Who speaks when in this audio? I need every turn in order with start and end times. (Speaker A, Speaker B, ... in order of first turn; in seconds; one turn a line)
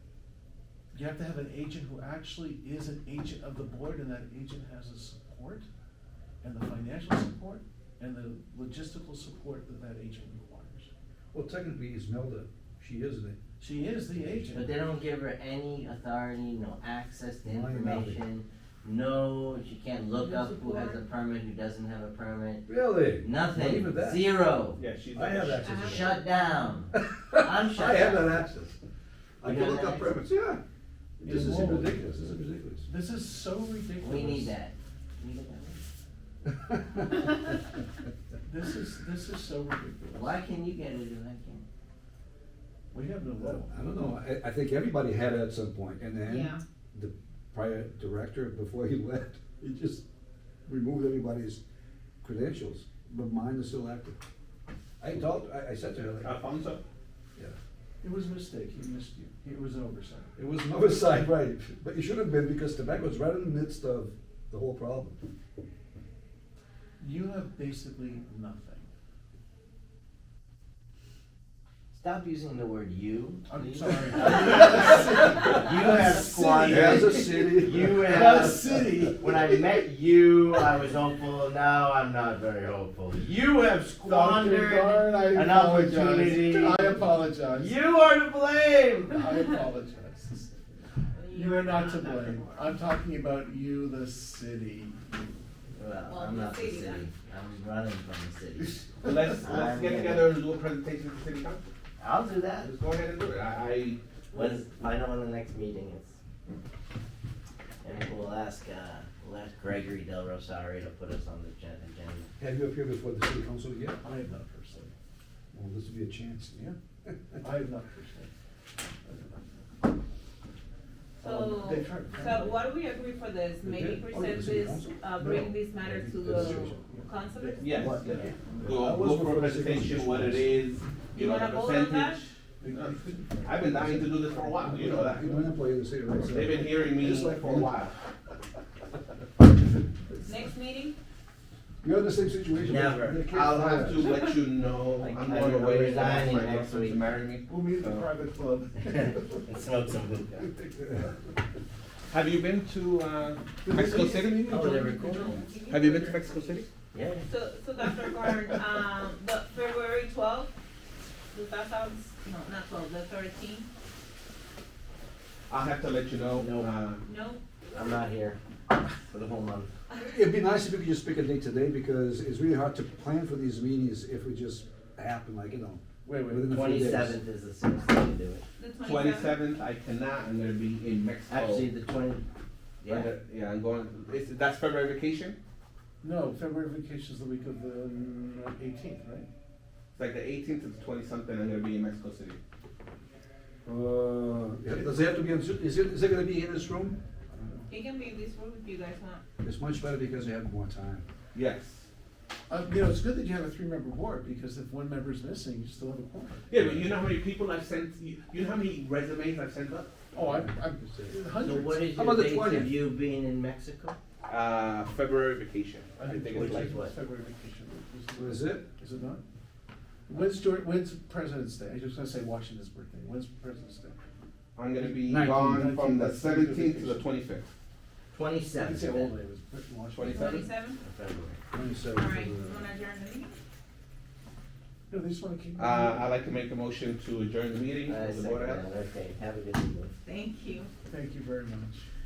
Speaker A: 0.9-5.7
Speaker A: 6.4-10.9
Speaker B: 11.3-13.4
Speaker A: 13.6-14.8
Speaker B: 14.1-14.6
Speaker C: 14.5-24.8
Speaker B: 17.4-18.2
Speaker A: 20.2-20.6
Speaker D: 20.2-20.9
Speaker B: 22.7-24.4
Speaker E: 24.8-25.8
Speaker B: 25.1-26.2
Speaker D: 25.6-26.1
Speaker C: 25.8-28.4
Speaker B: 26.9-28.8
Speaker B: 29.4-30.6
Speaker C: 29.4-30.1
Speaker B: 31.2-32.9
Speaker A: 31.2-32.0
Speaker A: 32.9-34.6
Speaker C: 34.0-35.8
Speaker B: 36.4-37.2
Speaker A: 38.5-40.4
Speaker C: 40.1-41.6
Speaker A: 42.9-43.7
Speaker B: 43.6-50.0
Speaker D: 46.3-46.6
Speaker B: 50.6-51.6
Speaker B: 52.2-54.1
Speaker B: 55.0-56.4
Speaker E: 56.2-56.8
Speaker A: 58.0-60.3
Speaker B: 60.4-65.2
Speaker A: 67.0-68.9
Speaker C: 71.9-89.4
Speaker A: 73.5-79.5
Speaker B: 76.6-78.0
Speaker A: 84.0-87.8
Speaker A: 89.1-90.5
Speaker D: 91.1-92.6
Speaker A: 91.3-95.2
Speaker C: 95.8-100.3
Speaker D: 96.0-97.1
Speaker E: 99.0-101.6
Speaker C: 102.0-102.7
Speaker E: 102.6-104.0
Speaker C: 104.3-106.2
Speaker C: 107.8-112.3
Speaker B: 112.4-114.0
Speaker A: 114.0-114.9
Speaker B: 115.5-116.6
Speaker A: 117.4-118.3
Speaker A: 119.0-119.6
Speaker A: 121.2-122.6
Speaker D: 121.2-127.9
Speaker B: 123.6-126.8
Speaker A: 126.8-127.1
Speaker E: 127.6-128.0
Speaker A: 127.6-128.6
Speaker B: 127.9-130.6
Speaker E: 128.6-135.4
Speaker D: 131.1-132.2
Speaker A: 132.6-135.2
Speaker B: 133.5-137.8
Speaker E: 136.2-138.0
Speaker D: 140.2-140.9
Speaker B: 141.8-144.2
Speaker C: 142.6-143.2
Speaker E: 143.2-148.1
Speaker C: 145.0-147.1
Speaker A: 147.5-149.4
Speaker C: 148.8-150.5
Speaker B: 150.8-151.1
Speaker E: 152.1-154.9
Speaker B: 153.6-155.3
Speaker C: 154.5-155.4
Speaker D: 154.9-156.7
Speaker E: 155.7-156.7
Speaker C: 156.9-157.3
Speaker D: 157.3-160.5
Speaker D: 161.3-163.7
Speaker E: 165.5-167.0
Speaker C: 166.4-166.7
Speaker D: 167.0-167.4
Speaker C: 167.7-169.7
Speaker B: 170.0-177.2
Speaker A: 176.0-176.7
Speaker C: 176.5-178.4
Speaker D: 178.6-179.4
Speaker E: 178.8-181.7
Speaker C: 181.3-182.2
Speaker C: 182.8-183.1
Speaker E: 182.9-185.4
Speaker A: 186.0-189.3
Speaker E: 189.9-192.4
Speaker B: 193.6-197.0
Speaker A: 197.3-197.6
Speaker D: 197.7-199.2
Speaker B: 199.4-201.0
Speaker E: 201.3-201.9
Speaker A: 202.5-206.5
Speaker E: 206.5-209.9
Speaker B: 206.6-206.8
Speaker A: 210.1-211.9
Speaker B: 210.2-211.2
Speaker C: 211.4-213.9
Speaker B: 211.9-212.8
Speaker E: 214.3-216.7
Speaker A: 216.0-219.2
Speaker B: 216.1-216.7
Speaker C: 216.3-216.9
Speaker B: 218.1-218.6
Speaker A: 220.1-224.0
Speaker E: 224.6-227.5
Speaker A: 224.8-227.0
Speaker B: 225.1-225.7
Speaker C: 228.1-229.1
Speaker A: 228.5-230.2
Speaker E: 229.9-230.5
Speaker D: 230.0-230.8
Speaker C: 230.8-231.4
Speaker B: 231.5-232.6
Speaker D: 231.9-233.4
Speaker A: 234.9-236.1
Speaker E: 235.6-238.6
Speaker C: 237.9-239.9
Speaker D: 240.0-240.7
Speaker A: 240.9-241.9